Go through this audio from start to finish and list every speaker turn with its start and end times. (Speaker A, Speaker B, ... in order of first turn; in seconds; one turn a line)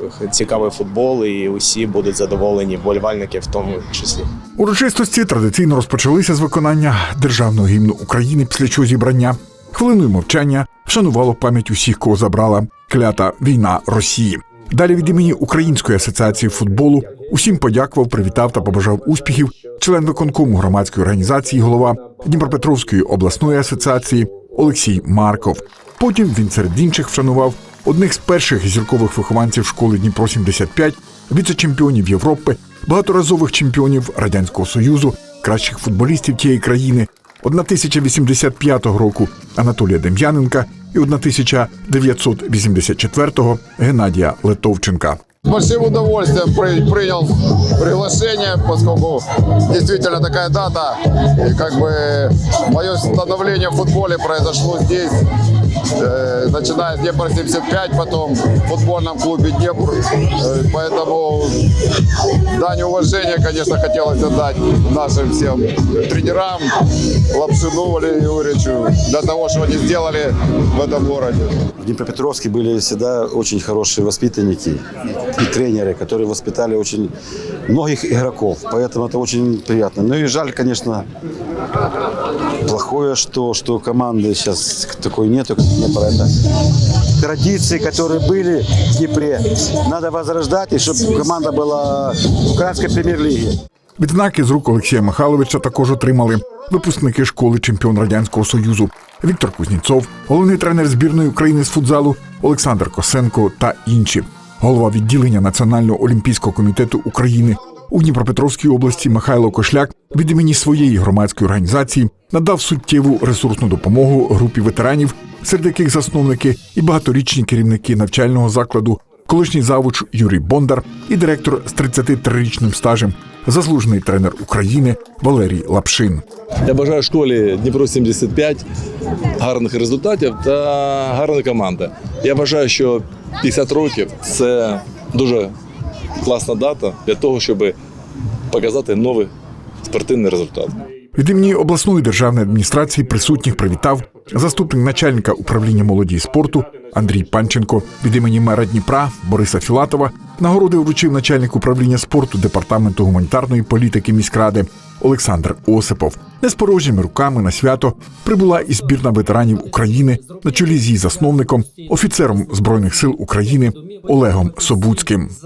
Speaker A: 0.5-1.4
Speaker A: 2.4-4.2
Speaker B: 4.6-45.2
Speaker C: 45.5-55.2
Speaker C: 56.0-71.6
Speaker D: 71.8-77.1
Speaker D: 77.7-81.0
Speaker D: 82.6-86.3
Speaker D: 87.2-93.5
Speaker B: 94.0-126.2
Speaker E: 126.7-128.6
Speaker E: 129.4-135.5
Speaker E: 136.2-137.7
Speaker E: 138.5-139.3
Speaker E: 139.8-140.8
Speaker B: 141.1-165.3